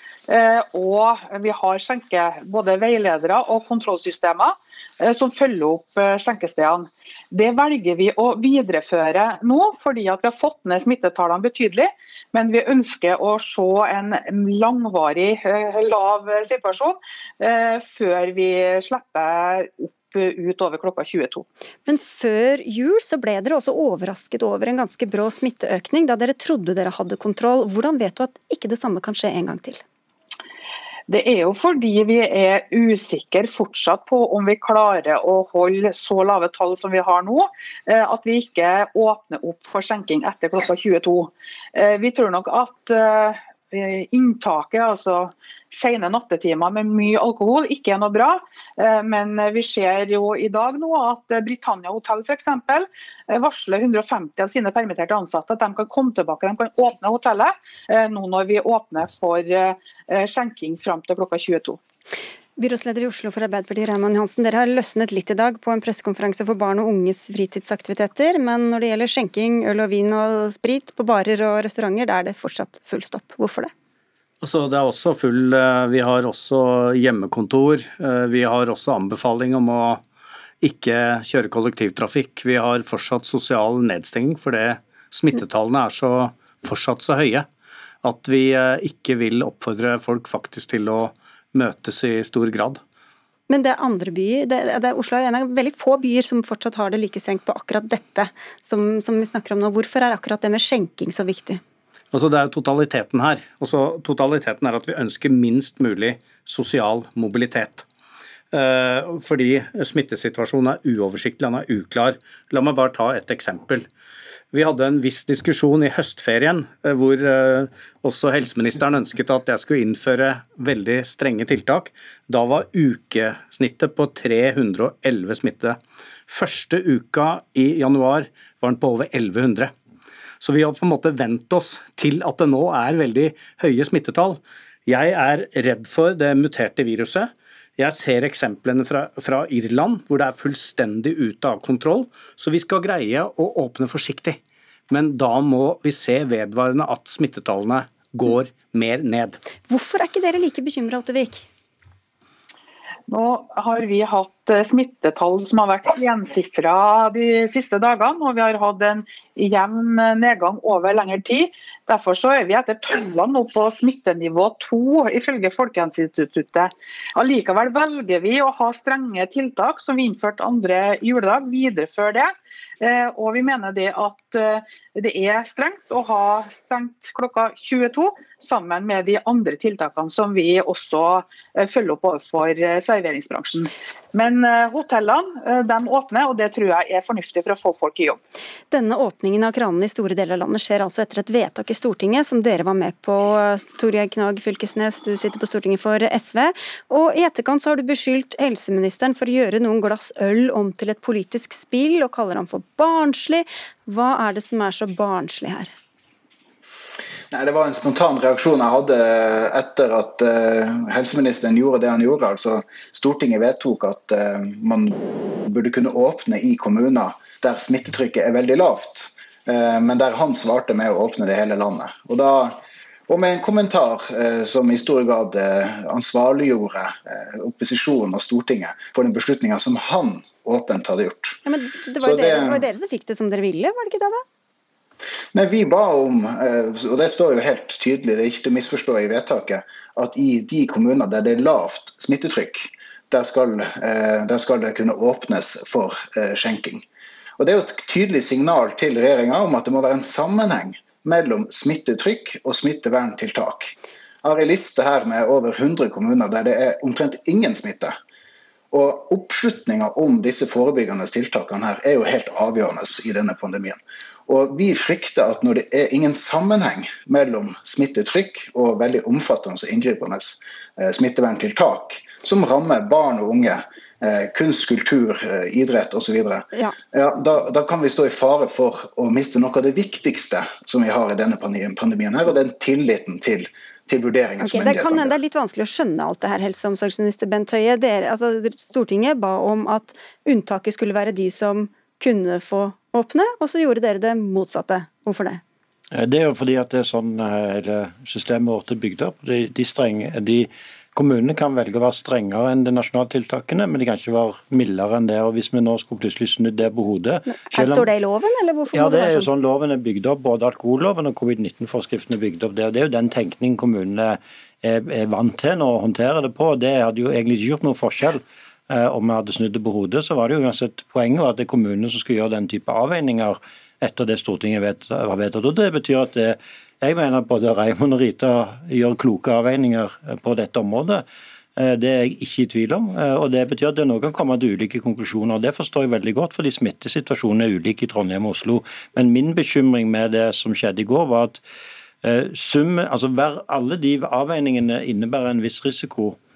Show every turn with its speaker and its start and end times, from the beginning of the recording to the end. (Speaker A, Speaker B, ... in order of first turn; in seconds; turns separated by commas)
Speaker A: 0.3-21.5, Speaker B: 21.9-29.8, Speaker A: 31.1-61.8, Speaker B: 62.6-73.7, Speaker C: 74.4-80.0, Speaker C: 80.6-87.5, Speaker C: 88.0-92.8, Speaker B: 93.5-101.6, Speaker C: 102.1-107.9, Speaker C: 108.5-113.9, Speaker C: 114.5-129.7, Speaker C: 130.4-149.4, Speaker B: 149.7-151.5, Speaker A: 153.1-188.2, Speaker B: 188.7-205.7, Speaker D: 207.3-231.4, Speaker B: 231.5-234.2, Speaker D: 232.0-232.6, Speaker D: 235.3-246.9, Speaker D: 247.4-258.0, Speaker D: 258.7-285.1, Speaker B: 284.4-295.4, Speaker E: 295.9-307.9, Speaker B: 307.5-309.3, Speaker E: 308.7-331.1, Speaker E: 331.6-341.4, Speaker E: 342.0-346.2